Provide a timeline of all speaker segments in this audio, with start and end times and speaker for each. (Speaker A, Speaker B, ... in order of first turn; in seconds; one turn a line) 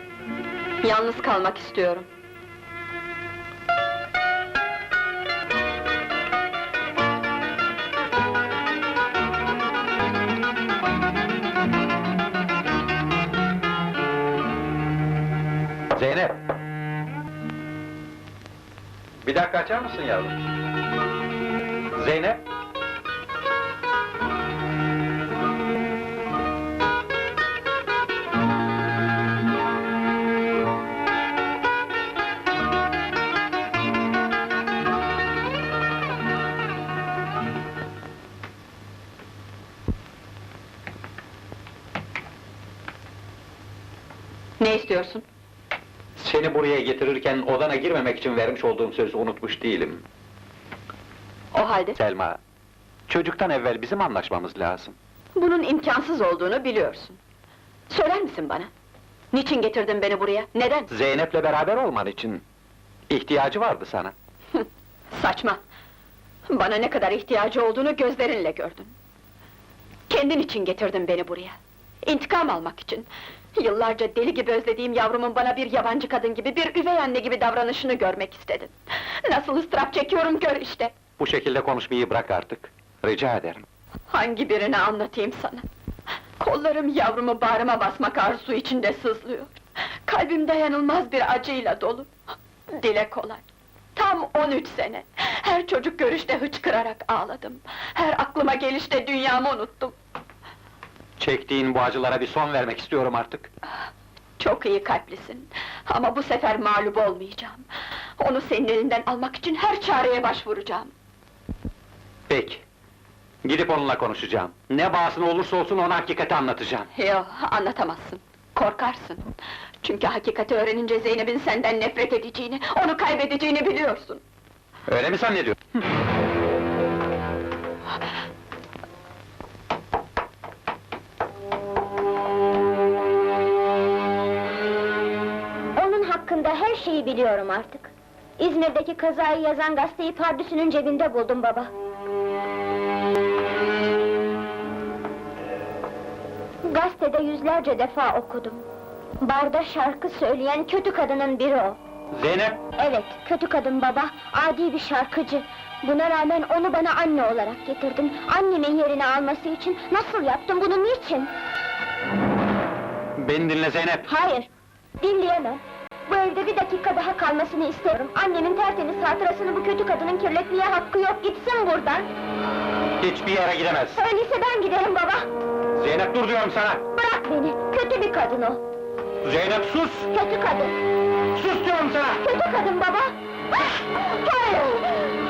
Speaker A: 0.8-2.1
Speaker B: 15.9-16.4
Speaker B: 19.2-20.4
Speaker B: 21.9-22.4
Speaker A: 44.6-45.2
Speaker B: 46.2-50.0
Speaker A: 51.5-52.0
Speaker B: 52.0-52.4
Speaker B: 53.1-54.9
Speaker A: 55.3-57.2
Speaker A: 57.9-58.7
Speaker A: 59.3-60.9
Speaker B: 60.9-62.4
Speaker B: 63.1-64.1
Speaker A: 64.5-65.6
Speaker A: 66.5-68.9
Speaker A: 70.1-80.9
Speaker B: 81.2-83.6
Speaker A: 84.1-85.6
Speaker A: 86.4-92.1
Speaker A: 92.7-93.4
Speaker A: 94.0-99.9
Speaker B: 101.2-103.5
Speaker A: 104.4-107.6
Speaker A: 108.2-110.9
Speaker B: 112.3-112.6
Speaker B: 113.4-116.9
Speaker A: 116.9-124.2
Speaker B: 124.9-125.8
Speaker C: 135.7-141.7
Speaker C: 146.6-148.6
Speaker C: 149.2-151.8
Speaker B: 152.1-152.6
Speaker C: 152.8-161.3
Speaker B: 163.2-164.1
Speaker C: 164.1-164.5
Speaker C: 165.0-172.1
Speaker B: 173.0-174.0
Speaker C: 173.9-175.3
Speaker B: 175.7-176.8
Speaker C: 176.9-178.6
Speaker B: 179.2-180.1
Speaker C: 180.1-180.8
Speaker B: 181.3-182.2
Speaker C: 182.2-183.1
Speaker A: 184.2-184.8